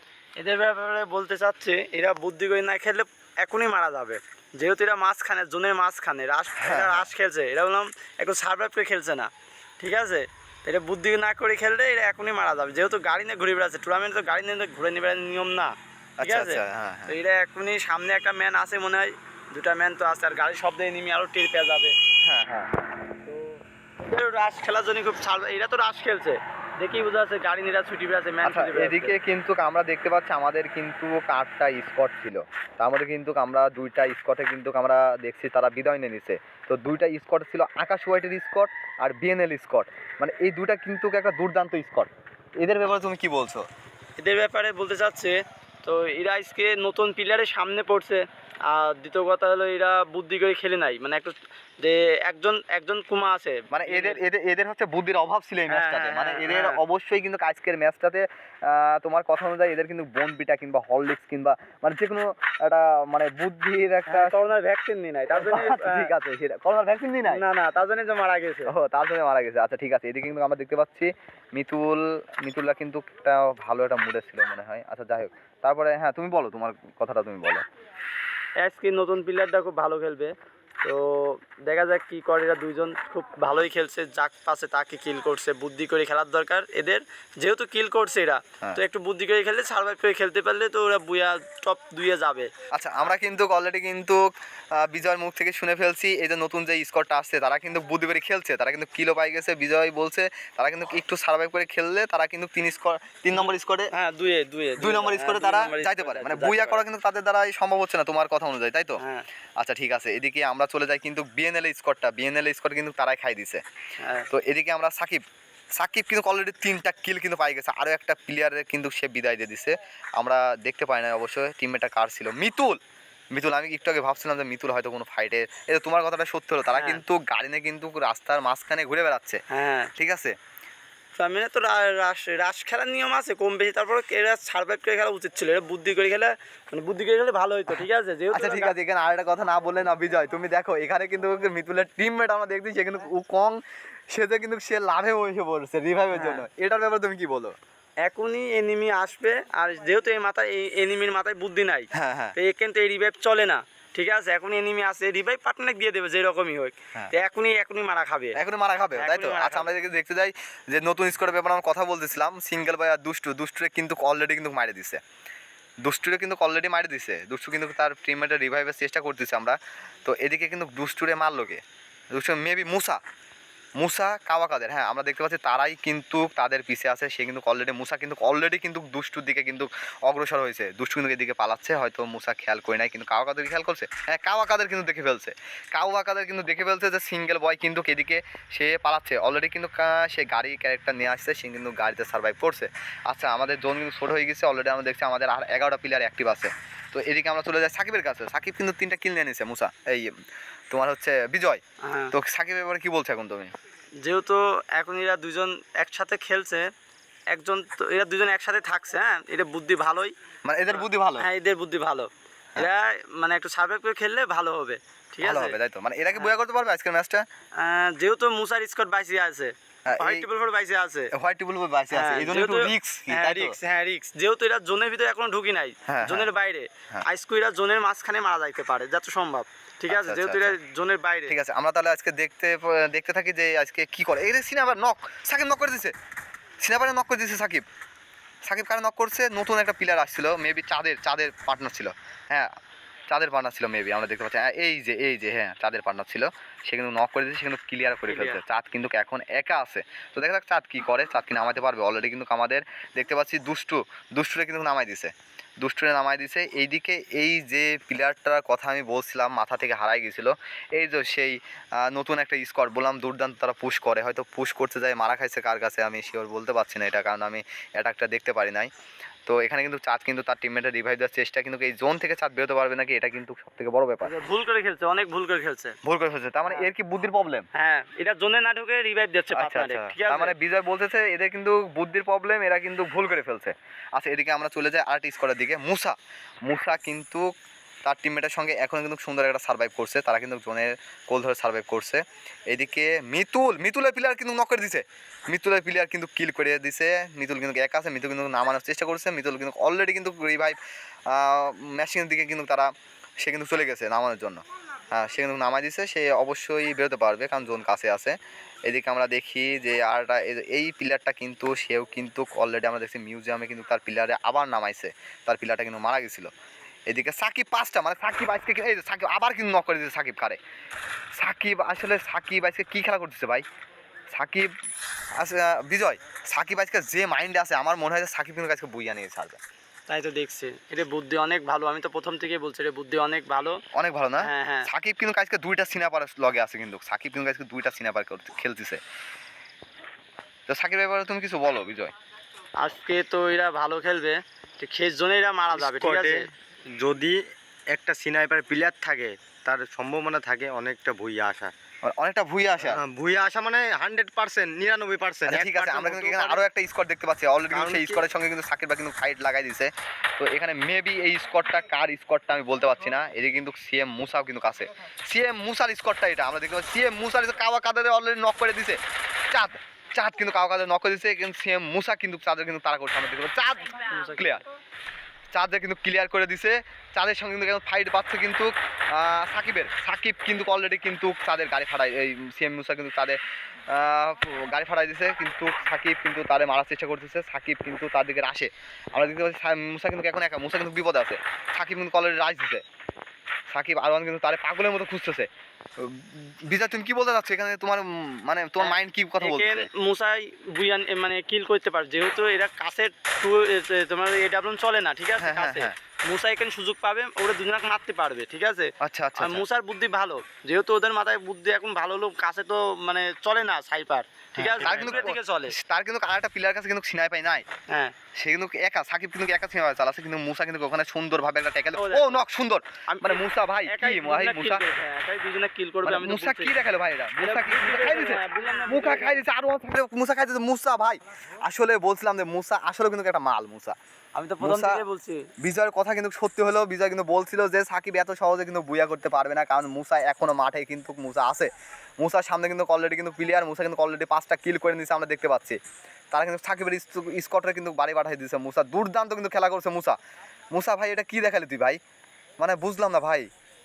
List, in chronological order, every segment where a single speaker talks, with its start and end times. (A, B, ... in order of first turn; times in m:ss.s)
0:00.4-0:22.0 A
0:06.6-0:07.1 B
0:16.2-0:17.2 B
0:22.2-0:22.8 B
0:23.3-0:29.2 A
0:28.4-0:43.7 B
0:44.2-0:54.2 A
0:53.7-1:04.3 B
0:55.7-0:56.8 A
1:04.1-1:06.1 A
1:05.3-1:07.4 B
1:07.2-1:08.7 A
1:08.7-1:17.6 B
1:18.6-1:32.5 A
1:32.7-1:43.9 B
1:43.4-1:46.8 A
1:44.8-1:49.0 B
1:49.0-1:49.3 A
1:49.6-1:53.6 B
1:54.0-1:54.3 A
1:54.3-1:55.2 B
1:55.8-2:02.8 B
2:03.3-2:09.4 B
2:06.7-2:07.0 A
2:09.5-2:09.9 A
2:10.0-2:10.4 B
2:11.2-2:18.7 A
2:18.3-2:27.6 B
2:26.1-2:26.4 A
2:28.1-2:38.4 A
2:32.0-2:32.4 B
2:38.4-2:45.0 B
2:39.0-2:39.7 A
2:45.8-2:53.0 B
2:53.8-3:20.2 B
3:20.7-3:23.5 B
3:21.8-3:22.1 A
3:24.0-3:26.7 A
3:27.3-3:30.1 A
3:30.5-3:31.3 B
3:30.7-3:35.6 A
3:35.2-3:37.2 B
3:37.6-3:41.1 A
3:39.9-3:40.3 B
3:41.1-3:43.6 B
3:41.9-3:51.3 A
3:45.9-3:46.3 B
3:49.9-3:50.6 B
3:51.3-3:55.9 B
3:56.6-3:57.6 B
3:58.5-4:02.5 B
4:03.1-4:28.7 B
4:08.1-4:08.4 A
4:29.3-4:34.1 B
4:34.0-4:35.8 A
4:35.8-4:37.5 B
4:37.5-4:40.3 A
4:39.3-4:47.3 B
4:47.8-5:02.7 B
5:03.2-5:16.3 B
5:16.9-5:20.4 B
5:21.2-5:23.4 B
5:24.1-5:24.5 B
5:25.2-5:29.4 B
5:29.9-5:33.6 A
5:33.7-5:38.8 B
5:34.2-5:34.7 A
5:40.5-5:41.9 B
5:42.6-5:46.3 A
5:45.5-5:47.2 C
5:47.7-5:51.5 C
5:51.8-5:52.8 B
5:52.6-5:56.4 C
5:55.3-6:08.8 B
5:57.5-5:58.0 C
6:09.3-6:14.4 B
6:13.9-6:14.2 A
6:15.3-6:32.6 B
6:33.5-6:39.7 B
6:38.6-6:55.6 A
6:45.2-6:45.8 B
6:48.8-6:49.5 B
6:54.4-6:57.4 B
6:54.5-6:55.1 C
6:57.7-6:58.0 A
6:58.2-7:04.6 B
7:01.8-7:02.2 A
7:02.9-7:06.6 A
7:05.8-7:13.8 B
7:07.2-7:09.2 A
7:14.2-7:15.3 A
7:14.4-7:14.8 B
7:15.4-7:25.6 B
7:26.1-7:30.0 B
7:30.5-7:31.8 B
7:32.4-7:33.3 B